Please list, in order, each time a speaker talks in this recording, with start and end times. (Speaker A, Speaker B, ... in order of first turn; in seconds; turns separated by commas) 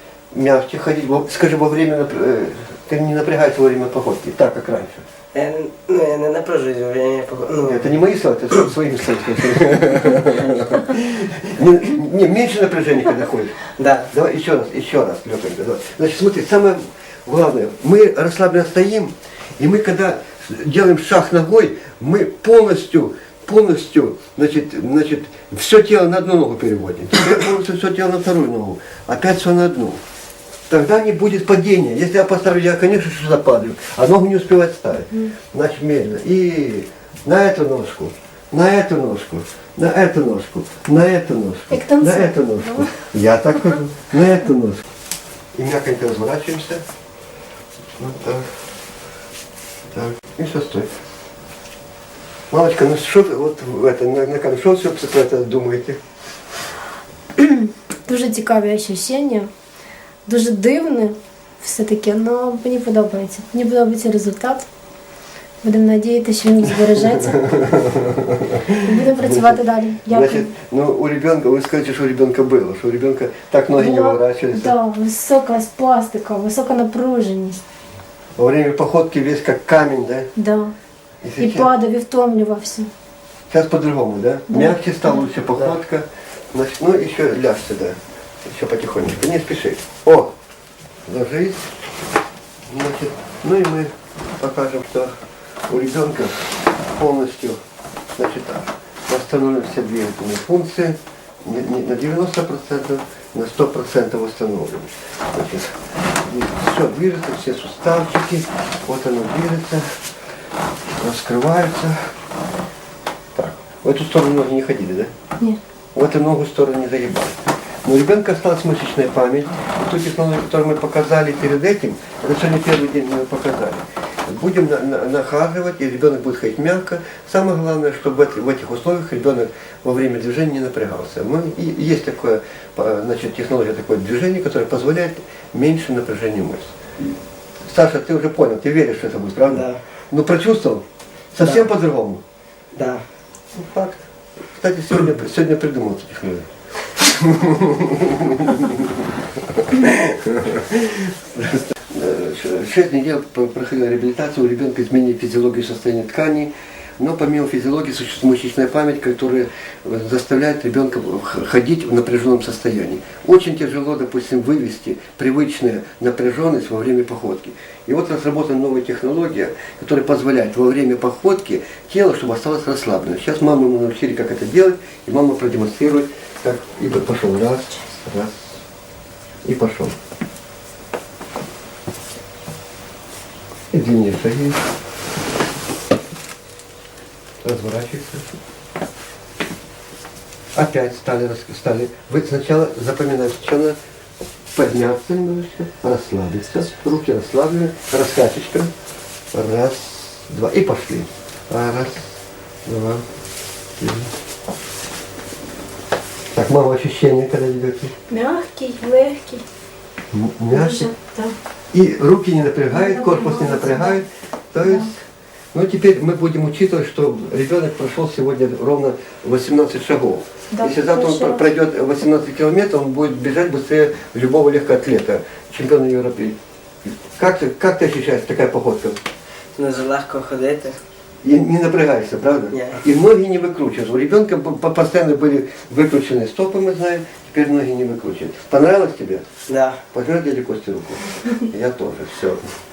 Speaker A: 0.3-5.0, Speaker B: 5.3-7.9, Speaker A: 7.6-30.0, Speaker B: 13.8-14.1, Speaker A: 30.7-44.9, Speaker C: 41.7-43.0, Speaker A: 45.5-46.8, Speaker A: 48.0-48.6, Speaker A: 49.9-51.0, Speaker A: 52.5-56.0, Speaker C: 57.4-59.5, Speaker C: 60.3-64.7, Speaker C: 65.6-67.4, Speaker A: 66.7-74.8, Speaker C: 68.8-70.5, Speaker C: 73.8-77.6, Speaker A: 78.4-80.3, Speaker C: 80.4-80.7, Speaker A: 81.2-81.7, Speaker C: 81.4-82.9, Speaker A: 83.5-90.3, Speaker C: 84.5-85.3, Speaker A: 91.1-91.7, Speaker A: 92.7-95.2, Speaker A: 95.7-97.6, Speaker A: 98.2-109.8, Speaker A: 111.0-112.1, Speaker A: 113.3-115.1, Speaker A: 116.0-136.8, Speaker A: 137.7-142.2, Speaker B: 139.5-139.8, Speaker B: 141.4-141.7, Speaker B: 142.7-143.1, Speaker A: 143.6-178.6, Speaker A: 179.4-179.9, Speaker A: 183.7-184.6, Speaker A: 187.4-188.3, Speaker A: 190.6-193.8, Speaker A: 194.6-198.7, Speaker A: 199.3-203.1, Speaker A: 203.8-204.1, Speaker A: 206.3-207.9, Speaker C: 208.1-209.4, Speaker A: 210.1-210.9, Speaker C: 210.5-211.4, Speaker A: 211.7-215.0, Speaker C: 212.7-214.0, Speaker C: 214.6-214.9, Speaker A: 215.5-226.4, Speaker C: 220.5-221.5, Speaker A: 227.1-229.0, Speaker B: 229.6-230.8, Speaker A: 231.2-239.3, Speaker B: 232.5-232.8, Speaker B: 239.5-239.8, Speaker A: 239.9-242.6